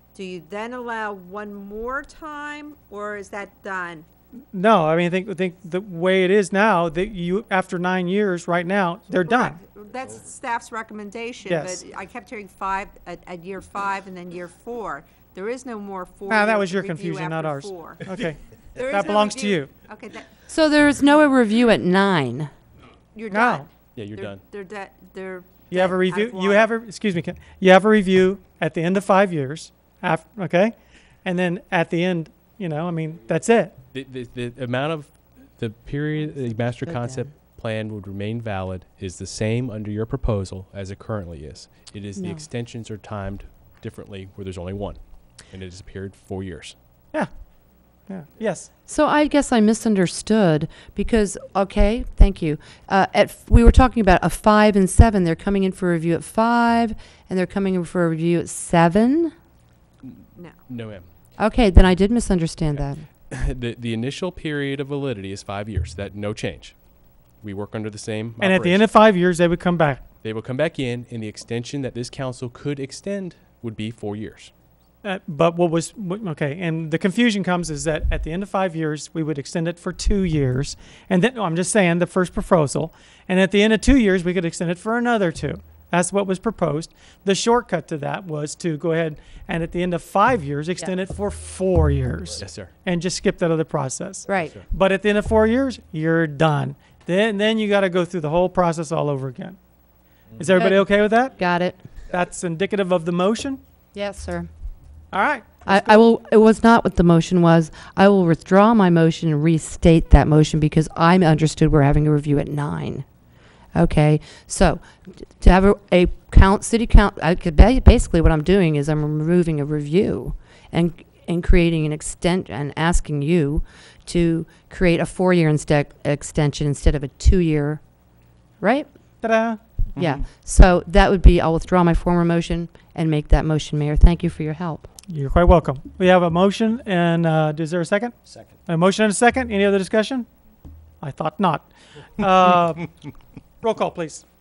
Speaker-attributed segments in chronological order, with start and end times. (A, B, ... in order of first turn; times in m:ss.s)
0:00.1-0:04.1 A
0:04.5-0:09.6 B
0:09.2-0:18.1 A
0:11.5-0:11.8 B
0:16.3-0:19.7 B
0:18.8-0:20.3 A
0:20.5-0:22.5 C
0:23.1-0:26.7 A
0:23.3-0:23.7 B
0:23.9-0:24.4 D
0:25.7-0:33.8 B
0:33.9-0:45.0 D
0:36.3-0:37.3 C
0:42.2-0:42.5 C
0:45.5-0:46.7 D
0:48.1-0:48.7 B
0:48.9-0:59.3 C
1:00.0-1:01.1 D
1:01.4-1:03.0 C
1:03.3-1:06.7 D
1:07.4-1:08.9 D
1:08.4-1:10.0 B
1:10.2-1:14.5 D
1:15.0-1:39.6 B
1:32.4-1:32.7 D
1:34.3-1:34.5 C
1:40.4-1:41.4 B
1:40.5-1:40.8 C
1:41.4-1:41.8 C
1:42.1-1:43.6 B
1:43.9-1:44.5 C
1:45.1-1:46.0 B
1:45.6-1:53.0 C
1:53.7-2:07.8 C
2:08.6-2:08.9 C
2:09.2-2:09.6 B
2:10.0-2:14.9 C
2:15.1-2:18.1 B
2:18.6-2:20.3 B
2:21.0-2:22.9 B
2:23.6-2:24.2 B